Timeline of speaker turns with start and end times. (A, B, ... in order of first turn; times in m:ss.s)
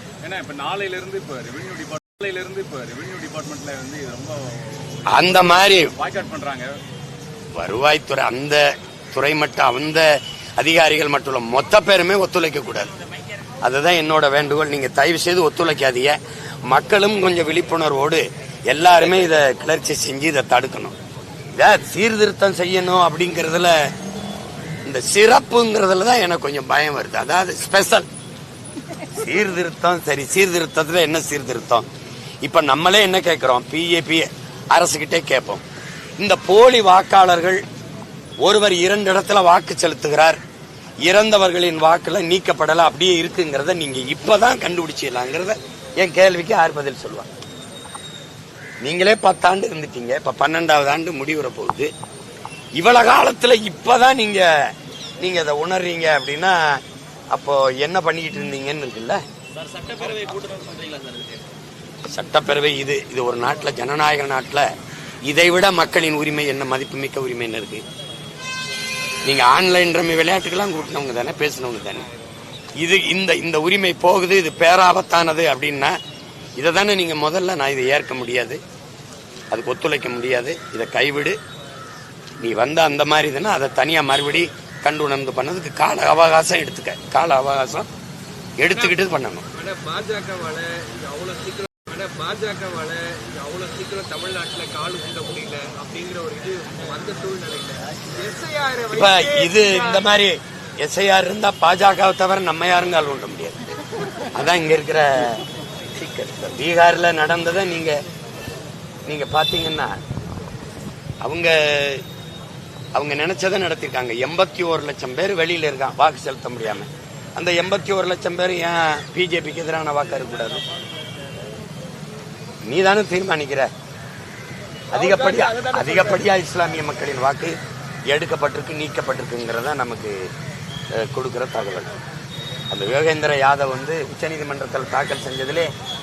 0:00.2-0:06.7 A
0:05.1-0:05.9 B
0:07.5-0:12.9 B
0:13.6-0:20.9 B
0:21.6-0:23.9 B
0:24.8-0:28.1 B
0:29.0-0:31.9 B
0:32.4-0:35.6 B
0:36.2-0:37.6 B
0:38.4-0:40.4 B
0:41.0-0:47.3 B
0:48.8-0:51.9 B
0:52.8-0:59.2 B
0:59.6-1:01.4 A
1:02.1-1:04.7 B
1:05.3-1:07.8 B
1:09.2-1:12.1 B
1:12.8-1:16.0 B
1:16.6-1:18.6 B
1:19.5-1:21.4 B
1:22.4-1:27.9 B
1:28.6-1:29.4 B
1:29.5-1:40.0 C
1:38.9-1:43.7 B
1:44.3-1:48.0 B
1:49.1-1:50.0 B
1:51.2-1:52.0 B
1:52.9-2:00.6 B
2:02.6-2:03.7 B
2:04.9-2:06.2 C
2:04.9-2:07.6 B
2:08.1-2:10.3 B
2:10.9-2:11.9 B
2:12.7-2:15.7 B